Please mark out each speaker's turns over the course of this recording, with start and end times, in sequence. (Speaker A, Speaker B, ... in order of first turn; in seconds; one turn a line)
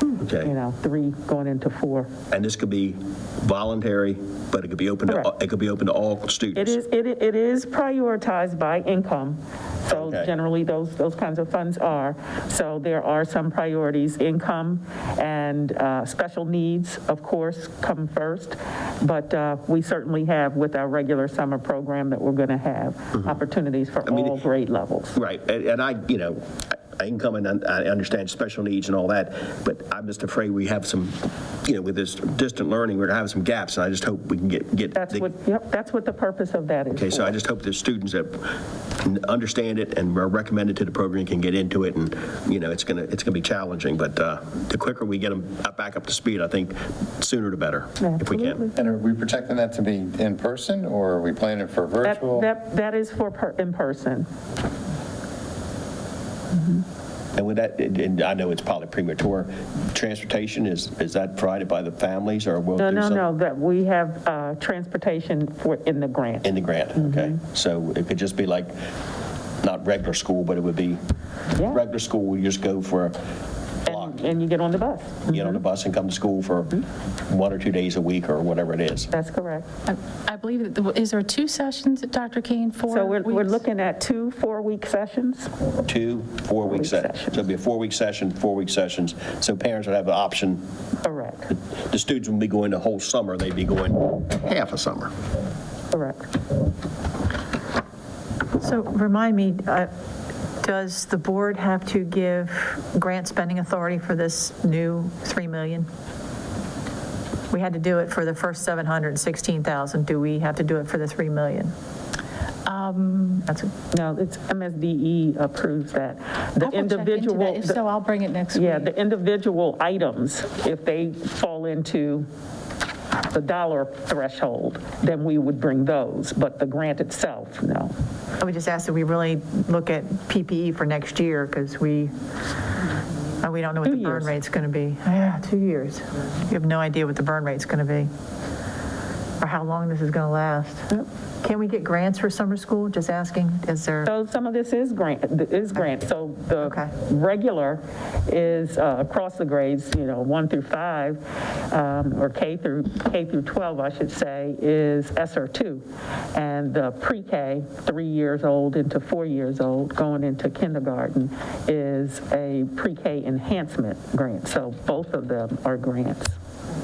Speaker A: 0.2-0.5
Speaker B: 0.4-2.1
Speaker A: 2.3-6.8
Speaker B: 6.6-25.2
Speaker A: 9.9-10.3
Speaker A: 24.1-24.3
Speaker A: 25.2-35.3
Speaker B: 35.0-37.4
Speaker A: 36.9-38.5
Speaker A: 39.0-48.7
Speaker B: 48.0-48.7
Speaker C: 48.8-52.5
Speaker B: 52.0-54.3
Speaker A: 57.4-63.2
Speaker B: 62.8-67.3
Speaker A: 66.4-68.7
Speaker A: 69.6-71.0
Speaker B: 71.6-71.8
Speaker A: 71.7-73.2
Speaker A: 73.9-74.1
Speaker B: 73.9-75.6
Speaker A: 75.3-79.1
Speaker B: 79.1-79.7
Speaker D: 79.9-83.6
Speaker B: 82.9-85.5
Speaker A: 85.9-90.6
Speaker B: 86.7-87.3
Speaker B: 91.0-91.5
Speaker A: 91.9-95.1
Speaker B: 95.9-96.3
Speaker E: 98.6-99.9
Speaker E: 100.6-105.9
Speaker E: 107.5-111.7
Speaker D: 112.7-113.5
Speaker B: 113.9-117.8
Speaker D: 116.6-118.9
Speaker B: 118.5-122.3
Speaker B: 123.3-127.9
Speaker E: 128.4-132.1
Speaker E: 133.4-138.1
Speaker B: 133.8-134.3
Speaker E: 139.4-140.9
Speaker E: 141.4-144.1
Speaker B: 144.1-155.8
Speaker E: 146.6-146.9
Speaker B: 156.3-166.4